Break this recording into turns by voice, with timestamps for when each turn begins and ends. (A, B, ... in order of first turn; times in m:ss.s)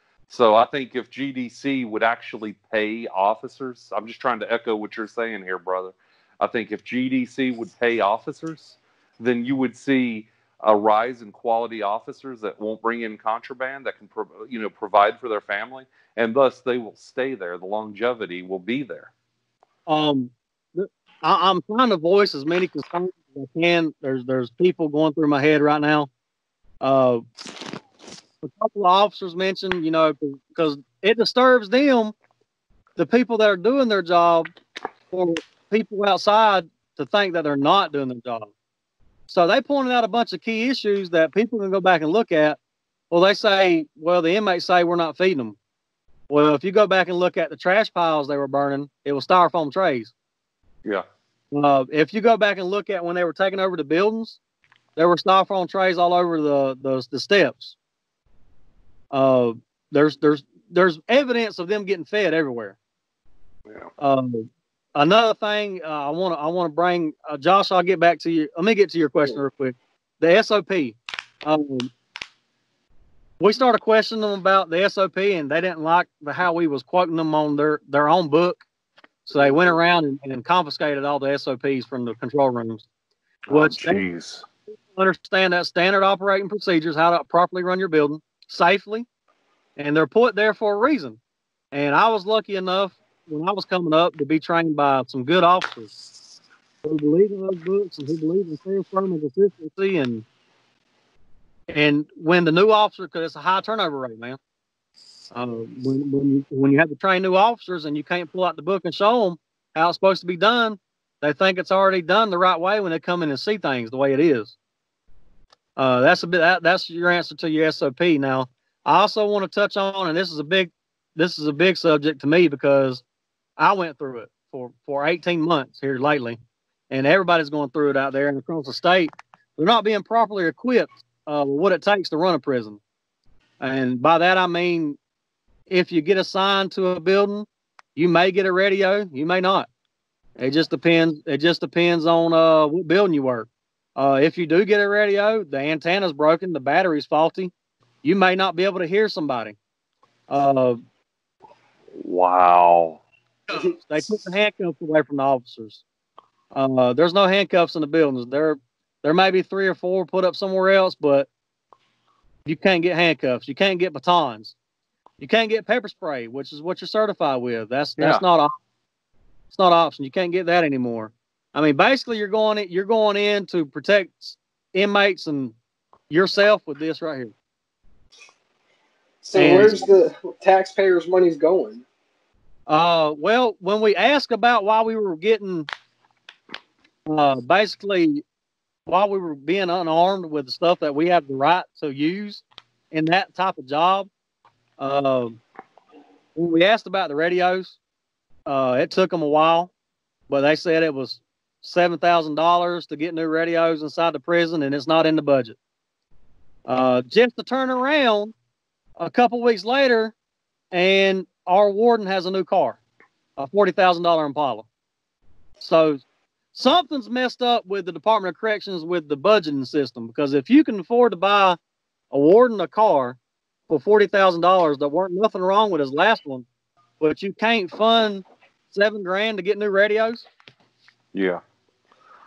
0:00.3-0:19.1 A
0:19.9-0:26.1 B
0:26.8-0:27.2 B
0:28.4-0:32.1 B
0:33.0-0:34.5 B
0:35.1-0:38.5 B
0:39.3-0:42.6 B
0:43.1-0:45.6 B
0:46.3-0:50.1 B
0:51.5-0:54.4 B
0:55.0-0:57.8 B
0:59.1-1:02.8 B
1:04.0-1:11.9 B
1:13.4-1:18.6 B
1:19.2-1:22.9 B
1:19.4-1:19.7 A
1:23.5-1:24.4 A
1:23.5-1:24.0 B
1:24.9-1:29.1 B
1:29.8-1:31.2 B
1:31.7-1:35.9 B
1:36.8-1:40.2 B
1:41.7-1:44.4 B
1:45.3-1:54.5 B
1:55.8-2:03.0 B
2:03.6-2:06.4 B
2:06.9-2:12.8 B
2:13.6-2:15.0 B
2:15.7-2:19.7 B
2:20.4-2:27.5 B
2:28.0-2:29.6 B
2:30.3-2:30.8 B
2:31.9-2:33.0 A
2:33.5-2:35.8 B
2:36.5-2:41.3 B
2:42.4-2:44.5 B
2:45.2-2:48.5 B
2:48.0-2:48.2 A
2:49.5-2:55.5 B
2:56.1-2:57.3 B
2:59.2-3:01.8 C
2:59.3-2:59.8 B
2:59.4-3:00.0 A
3:02.7-3:05.7 B
3:07.1-3:08.2 B
3:08.9-3:14.1 B
3:14.8-3:15.4 B
3:16.3-3:17.8 B
3:18.4-3:19.7 B
3:20.3-3:25.6 B
3:26.7-3:28.3 B
3:29.0-3:30.1 B
3:30.7-3:32.8 B
3:33.4-3:34.7 B
3:35.6-3:41.6 B
3:42.1-3:43.2 B
3:43.7-3:46.4 B
3:47.0-3:50.3 B
3:51.1-3:51.4 A